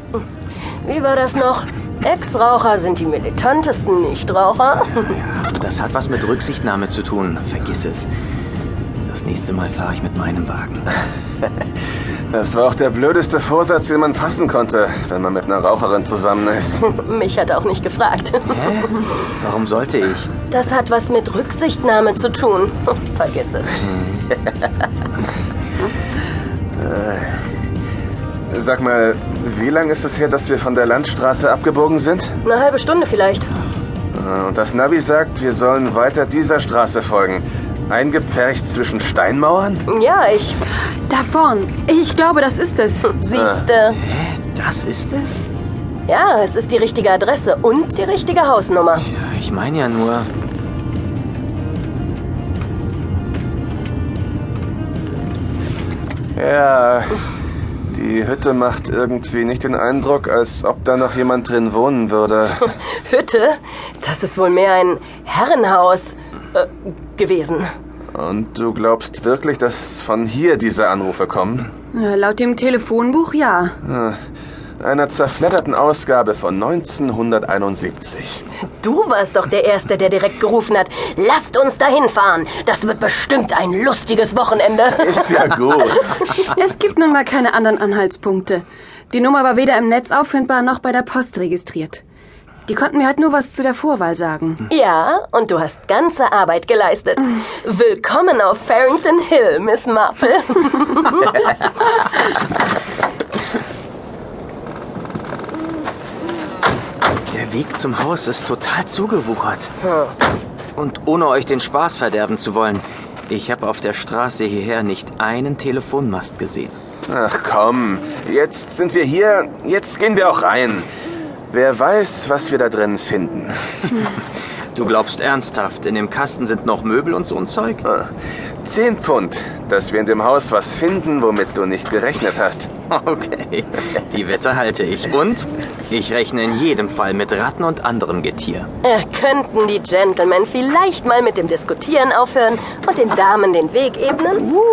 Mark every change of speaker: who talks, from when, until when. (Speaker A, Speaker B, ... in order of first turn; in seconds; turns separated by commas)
Speaker A: 0.8-5.2, Speaker B: 5.1-8.1, Speaker B: 9.1-10.9, Speaker C: 12.3-16.8, Speaker A: 16.8-19.1, Speaker B: 18.5-20.3, Speaker A: 20.5-23.8, Speaker B: 24.0-24.2, Speaker C: 26.8-27.4, Speaker C: 28.5-32.4, Speaker A: 32.5-33.5, Speaker C: 34.1-39.9, Speaker A: 39.9-40.6, Speaker D: 41.1-43.1, Speaker A: 43.1-44.0, Speaker C: 43.3-43.6, Speaker B: 44.0-45.4, Speaker A: 46.1-49.1, Speaker B: 49.1-50.3, Speaker C: 56.4-57.2, Speaker C: 57.9-62.7, Speaker A: 62.9-67.7, Speaker C: 68.1-71.7, Speaker D: 71.9-73.8, Speaker C: 73.8-74.2, Speaker C: 74.8-78.4, Speaker A: 78.8-85.5, Speaker C: 85.0-86.3, Speaker D: 86.5-92.0, Speaker D: 92.7-94.6, Speaker A: 94.7-101.5, Speaker B: 107.3-109.7, Speaker B: 110.8-116.8, Speaker C: 117.1-120.9, Speaker C: 121.5-123.6, Speaker B: 124.8-127.8, Speaker C: 127.8-128.1, Speaker C: 128.6-132.7, Speaker B: 132.9-138.7, Speaker A: 138.8-144.6